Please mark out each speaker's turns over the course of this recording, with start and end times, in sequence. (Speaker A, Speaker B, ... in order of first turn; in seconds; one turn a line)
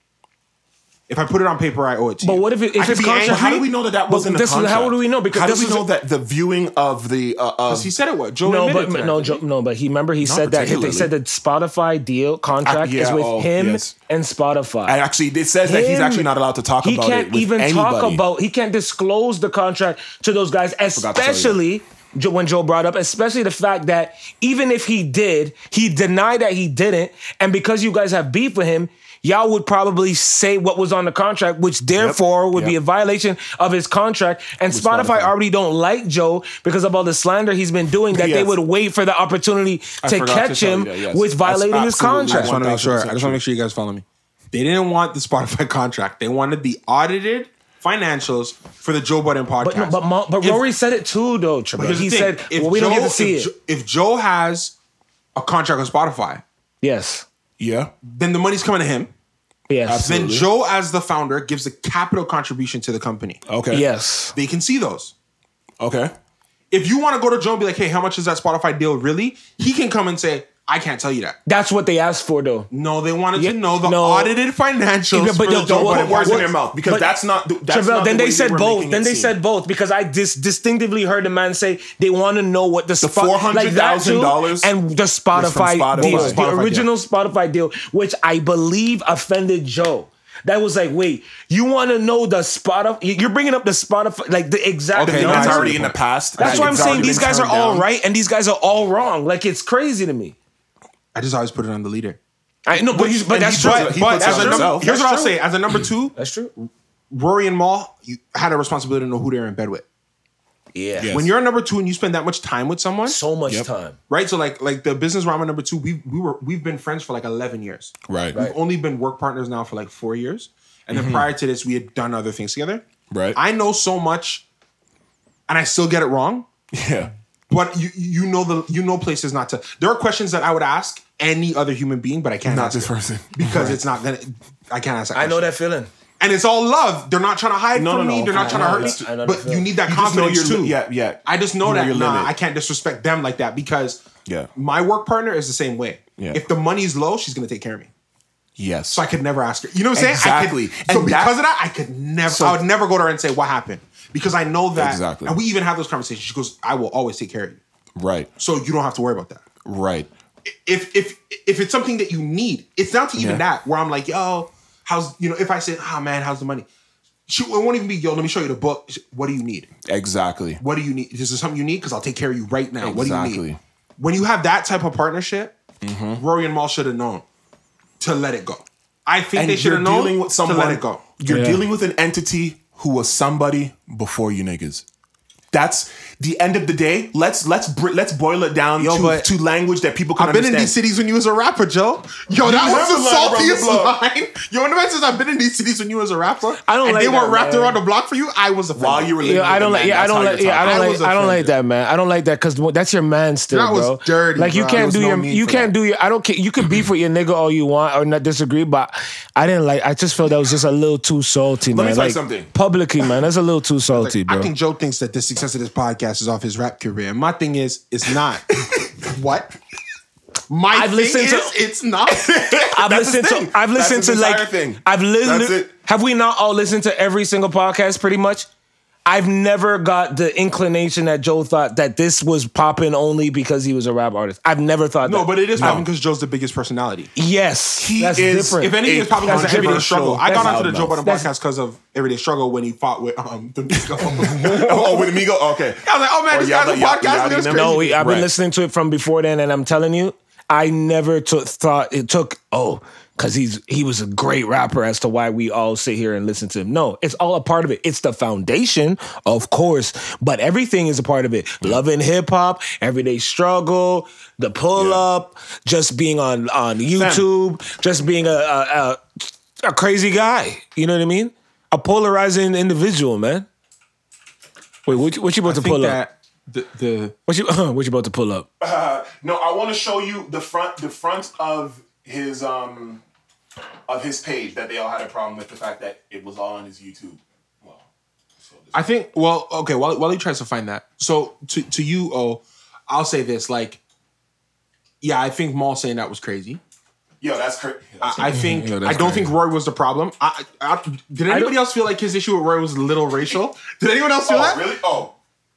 Speaker A: 1.1-3.7
Speaker B: 2.2-3.5
Speaker C: 2.8-7.9
Speaker B: 4.1-5.9
Speaker A: 7.7-9.4
Speaker B: 8.4-15.0
Speaker C: 10.2-11.1
Speaker C: 12.6-13.9
Speaker C: 14.8-18.2
Speaker B: 15.6-42.5
Speaker C: 20.9-21.6
Speaker C: 32.0-32.8
Speaker C: 34.7-35.3
Speaker C: 38.1-38.5
Speaker C: 40.0-43.4
Speaker A: 42.3-50.6
Speaker B: 49.6-53.5
Speaker A: 51.8-54.7
Speaker A: 55.4-56.4
Speaker B: 56.8-57.2
Speaker C: 57.6-57.9
Speaker A: 58.0-59.1
Speaker B: 59.7-60.1
Speaker C: 59.9-60.5
Speaker A: 60.0-63.4
Speaker C: 63.5-63.8
Speaker B: 63.7-64.3
Speaker A: 64.3-65.1
Speaker C: 65.8-66.1
Speaker A: 66.7-71.4
Speaker B: 71.5-72.7
Speaker A: 72.7-76.5
Speaker B: 73.3-74.3
Speaker B: 75.1-77.1
Speaker C: 75.5-79.4
Speaker B: 77.7-100.3
Speaker C: 83.0-84.7
Speaker C: 85.3-86.4
Speaker A: 86.0-86.9
Speaker A: 94.9-95.8
Speaker C: 95.0-97.8
Speaker A: 96.4-97.2
Speaker A: 101.1-102.2
Speaker B: 102.7-105.4
Speaker C: 102.8-104.9
Speaker A: 103.5-109.8
Speaker B: 106.2-106.5
Speaker B: 110.7-111.1
Speaker C: 111.0-111.3
Speaker A: 111.1-113.2
Speaker B: 113.0-114.0
Speaker A: 114.1-122.8
Speaker C: 118.1-118.4
Speaker C: 120.9-121.3
Speaker C: 123.1-123.4
Speaker A: 123.3-124.4
Speaker A: 125.5-126.5
Speaker C: 126.7-127.1
Speaker A: 127.5-135.5
Speaker C: 132.4-133.8
Speaker B: 135.1-135.9
Speaker A: 136.2-147.9
Speaker C: 137.7-139.1
Speaker B: 138.3-139.7
Speaker C: 139.8-142.3
Speaker C: 146.2-146.4
Speaker C: 148.6-149.0
Speaker A: 148.9-157.6
Speaker C: 149.9-151.3
Speaker C: 152.3-152.6
Speaker C: 154.7-155.4
Speaker C: 157.9-158.3
Speaker A: 158.4-159.4
Speaker C: 159.6-160.1
Speaker A: 160.4-166.7
Speaker C: 163.2-163.4
Speaker A: 167.3-169.7
Speaker C: 169.8-170.6
Speaker A: 170.6-173.4
Speaker C: 172.8-173.6
Speaker A: 174.0-175.5
Speaker C: 175.8-176.2
Speaker A: 176.2-177.2
Speaker A: 178.0-181.0
Speaker C: 179.3-184.8
Speaker B: 181.3-181.6
Speaker C: 185.5-190.7
Speaker A: 188.8-189.3
Speaker A: 190.2-199.8
Speaker C: 192.4-194.0
Speaker B: 196.6-197.8
Speaker C: 198.7-201.0
Speaker B: 199.2-214.5
Speaker A: 200.4-201.5
Speaker A: 203.5-204.9
Speaker C: 204.7-205.7
Speaker C: 211.7-212.5
Speaker A: 213.9-219.5
Speaker C: 218.6-218.9
Speaker A: 220.5-222.7
Speaker B: 220.7-221.5
Speaker C: 222.1-225.7
Speaker B: 222.7-228.4
Speaker B: 229.1-235.8
Speaker A: 235.0-237.1
Speaker C: 235.6-235.8
Speaker B: 237.2-241.3
Speaker C: 237.8-241.0
Speaker A: 238.6-245.2
Speaker C: 244.0-248.3
Speaker A: 245.8-247.9
Speaker B: 247.5-273.4
Speaker C: 264.7-265.0
Speaker C: 266.9-267.2
Speaker B: 274.9-276.0
Speaker A: 275.4-277.1
Speaker B: 277.3-278.5
Speaker C: 278.6-283.0
Speaker C: 283.9-287.9
Speaker C: 288.4-288.8
Speaker A: 288.7-293.8
Speaker A: 295.0-296.6
Speaker C: 297.2-299.3
Speaker A: 298.0-304.6
Speaker B: 298.3-299.2
Speaker B: 301.3-301.5
Speaker C: 304.3-305.1